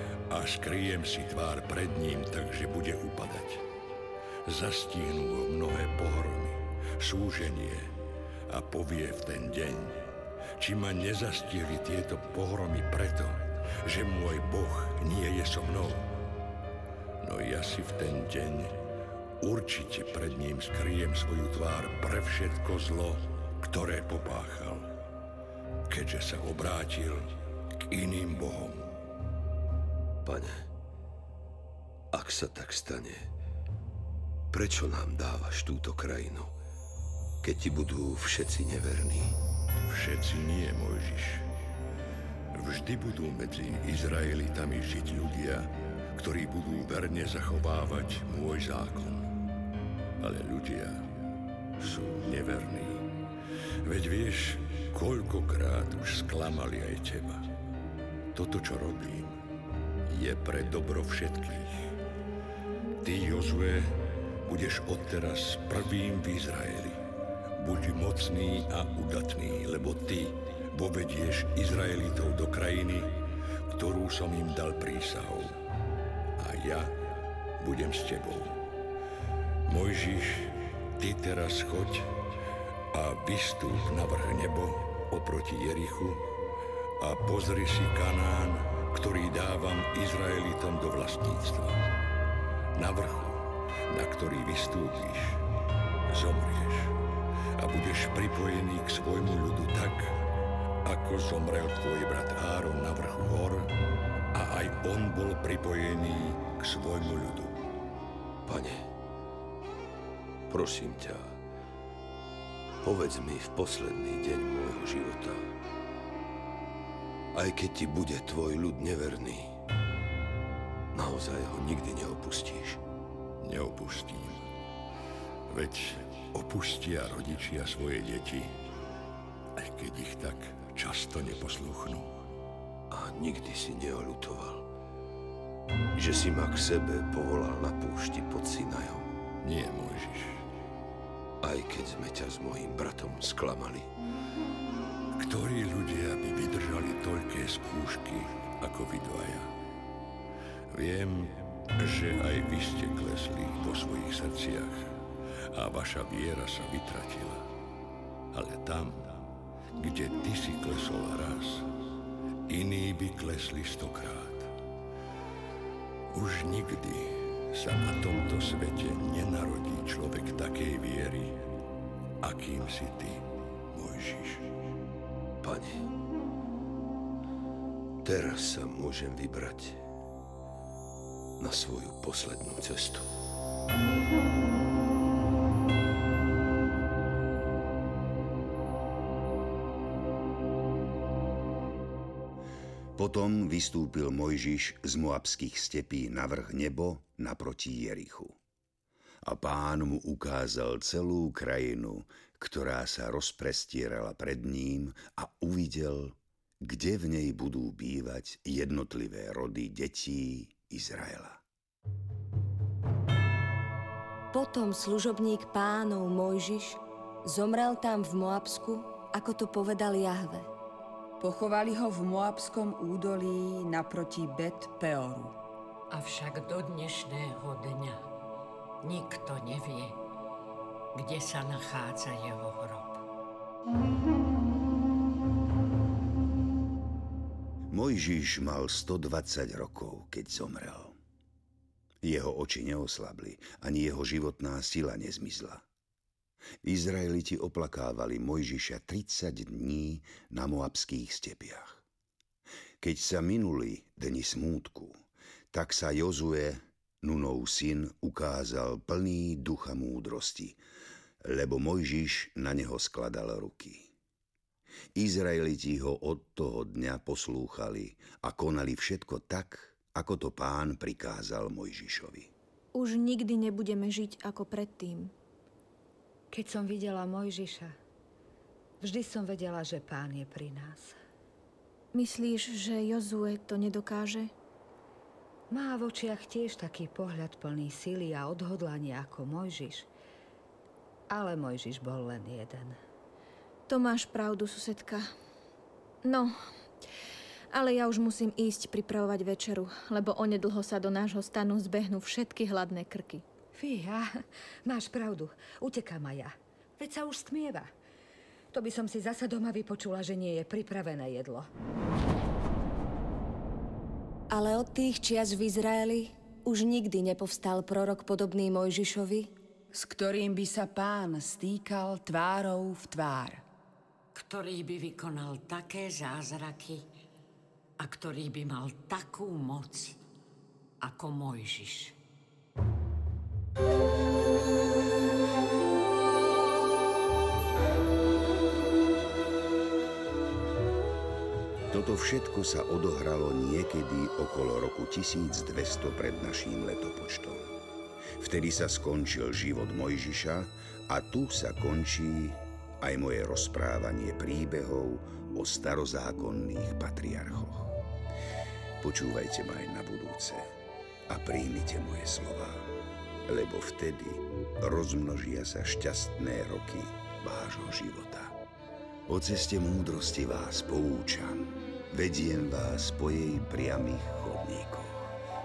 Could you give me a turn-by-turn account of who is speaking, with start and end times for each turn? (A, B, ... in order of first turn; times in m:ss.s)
0:00.3-0:03.6 A
0:04.4-0:07.9 A
0:08.5-0:16.0 A
0:17.2-0:18.8 A
0:19.4-0:24.9 A
0:25.9-0:27.3 A
0:27.8-0:28.9 A
0:30.2-0:30.7 B
0:32.1-0:33.2 B
0:34.5-0:36.5 B
0:37.4-0:39.3 B
0:39.9-0:41.4 A
0:42.5-0:49.3 A
0:50.2-0:51.1 A
0:51.8-0:53.1 A
0:53.8-0:57.4 A
0:58.3-0:59.3 A
1:00.1-1:01.9 A
1:03.0-1:07.0 A
1:07.6-1:15.5 A
1:16.4-1:16.9 A
1:17.6-1:18.6 A
1:19.7-1:22.1 A
1:22.9-1:26.2 A
1:27.0-1:31.8 A
1:32.7-1:35.4 A
1:36.1-1:36.9 A
1:37.6-1:40.1 A
1:40.8-1:43.7 A
1:44.3-1:47.6 A
1:48.4-1:48.8 B
1:50.5-1:51.4 B
1:52.8-1:55.5 B
1:57.3-1:59.5 B
2:00.9-2:02.8 B
2:03.4-2:04.4 A
2:05.5-2:08.5 A
2:09.6-2:12.1 A
2:12.9-2:14.6 B
2:15.9-2:19.1 B
2:19.4-2:20.4 A
2:21.4-2:23.9 B
2:25.2-2:29.5 A
2:30.7-2:34.8 A
2:35.5-2:37.4 A
2:38.3-2:39.2 A
2:39.8-2:41.7 A
2:42.5-2:44.5 A
2:46.1-2:51.4 A
2:52.2-2:54.4 A
2:55.4-2:55.9 B
2:58.0-2:59.8 B
3:01.4-3:03.1 B
3:13.0-3:18.4 C
3:19.2-3:31.4 C
3:34.3-3:40.5 D
3:41.2-3:45.4 E
3:45.9-3:48.0 F
3:48.8-3:50.0 F
3:50.9-3:53.0 F
3:57.7-4:01.0 C
4:02.0-4:05.6 C
4:06.6-4:11.8 C
4:12.8-4:15.0 C
4:15.5-4:20.6 C
4:21.2-4:23.9 C
4:24.9-4:32.3 C
4:32.7-4:35.1 G
4:36.3-4:37.8 H
4:38.8-4:40.9 H
4:41.9-4:44.3 G
4:45.5-4:49.9 H
4:51.1-4:52.8 H
4:53.7-4:55.1 G
4:56.0-4:56.3 G
4:57.5-5:03.2 G
5:03.5-5:07.7 H
5:08.5-5:11.5 H
5:14.3-5:19.4 D
5:19.7-5:23.4 E
5:24.1-5:26.8 F
5:27.8-5:30.0 F
5:30.8-5:32.0 F
5:41.7-5:47.5 C
5:48.2-5:57.7 C
5:58.8-6:00.5 C
6:01.1-6:02.7 C
6:03.2-6:08.4 C
6:09.1-6:15.1 C